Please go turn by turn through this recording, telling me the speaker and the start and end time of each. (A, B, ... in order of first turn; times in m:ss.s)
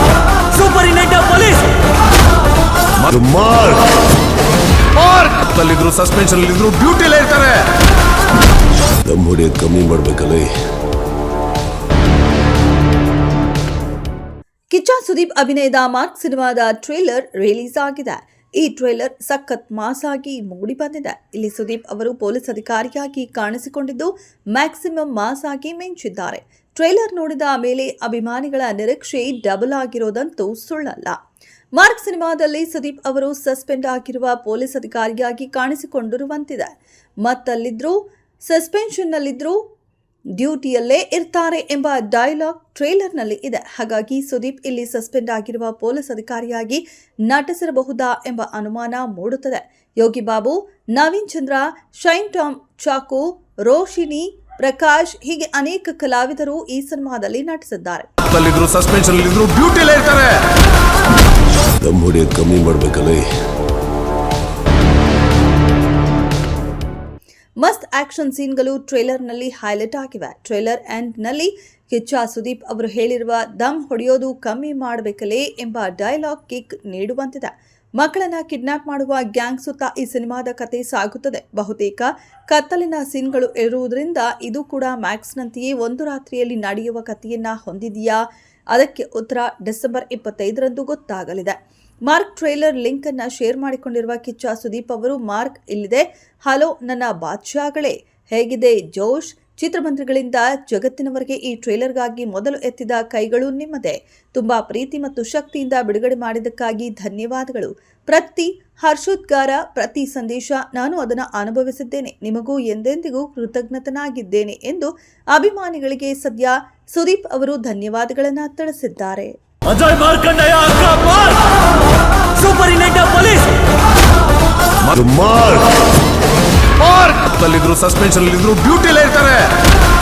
0:00.5-0:01.5 A
0:00.5-0:01.3 B
0:03.1-0:03.8 C
0:05.0-0:07.7 B
0:09.0-0:10.5 C
0:14.7-0:31.2 D
0:31.7-0:39.6 D
0:40.4-0:58.1 D
0:58.2-1:00.4 B
1:01.8-1:03.2 C
1:07.6-1:59.4 D
1:59.6-2:01.4 A
2:02.3-2:03.4 A
2:05.0-2:05.7 C
2:06.8-2:09.5 B